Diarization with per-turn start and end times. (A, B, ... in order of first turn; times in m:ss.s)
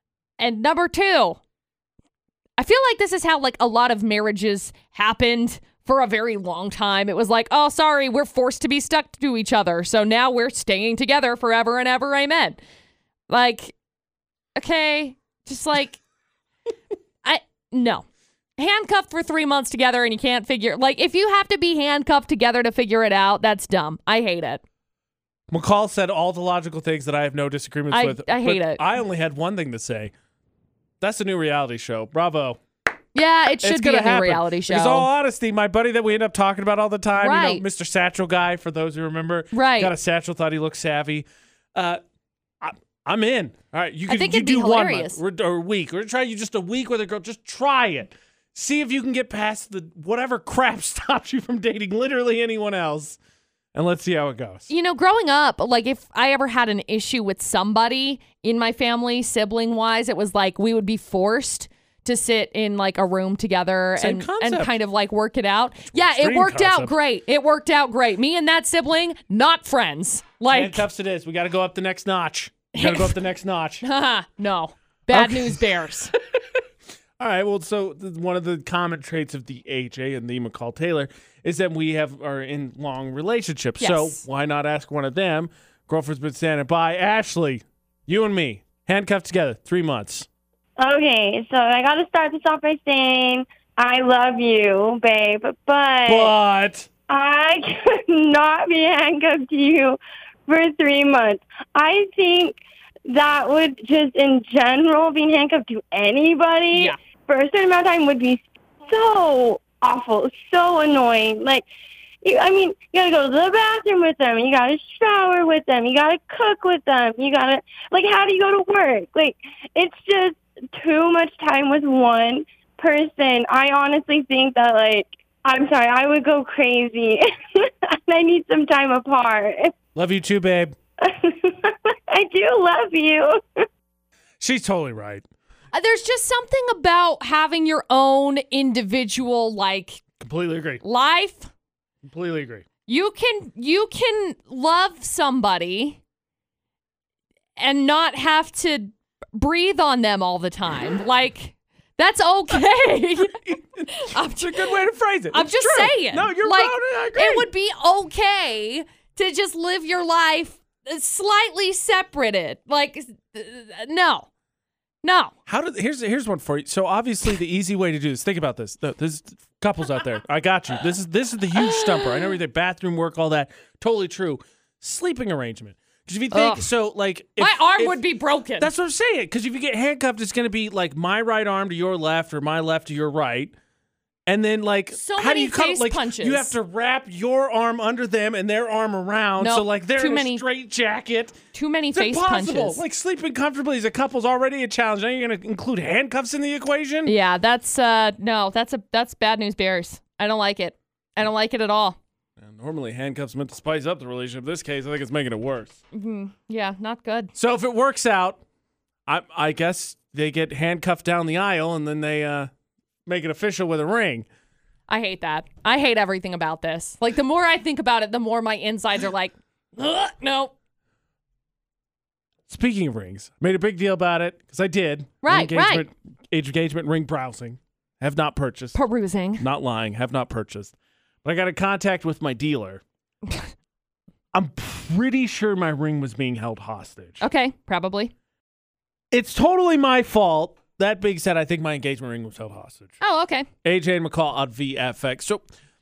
0:00.4-0:01.4 A
0:02.6-0:12.6 A
0:13.3-0:13.7 A
0:14.6-0:16.0 A
0:17.2-0:18.0 A
0:18.6-0:24.6 A
0:25.5-0:30.1 B
0:27.9-0:28.8 A
0:31.0-0:32.6 B
0:33.1-0:35.1 A
0:33.6-0:42.0 B
0:37.2-0:37.6 A
0:39.5-0:39.9 A
0:42.6-0:53.2 B
0:44.1-0:45.2 A
0:53.7-0:54.7 B
0:54.7-1:10.8 A
1:04.0-1:04.7 B
1:05.9-1:06.9 B
1:10.5-1:13.8 B
1:12.7-1:13.2 A
1:13.8-1:16.1 A
1:15.1-1:15.6 B
1:17.2-1:30.3 B
1:23.8-1:24.2 A
1:30.8-1:36.3 C
1:36.0-1:36.9 B
1:37.1-1:51.6 C
1:52.2-2:09.7 C
2:09.9-2:10.8 B
2:11.0-2:13.4 C
2:14.4-2:15.2 B
2:15.7-2:20.0 A
2:20.2-2:20.8 B
2:20.8-2:21.5 A
2:22.0-2:22.6 B
2:22.9-2:26.0 A
2:27.6-2:33.4 A
2:33.4-2:37.5 B
2:33.9-2:34.8 A
2:35.3-2:44.3 A
2:45.0-2:45.3 A
2:45.5-2:58.0 B
2:51.6-2:52.3 A
2:56.3-2:56.7 A
2:57.4-2:58.7 A
2:58.6-3:03.5 B
3:04.3-3:11.4 B
3:04.9-3:06.5 A
3:09.4-3:10.4 A
3:11.5-3:12.8 A
3:11.9-3:17.1 B
3:17.0-3:22.0 A
3:22.4-3:25.8 B
3:25.9-3:27.3 A
3:27.3-3:28.4 B
3:29.1-3:32.5 B
3:33.0-3:34.2 B
3:34.9-3:40.5 A
3:42.5-3:48.8 B
3:45.2-3:45.9 A
3:48.7-3:49.4 A
3:49.4-3:52.8 B
3:54.3-3:57.2 B
3:57.2-3:58.1 A
3:59.1-4:03.0 B
4:03.0-4:03.5 A
4:03.6-4:05.5 B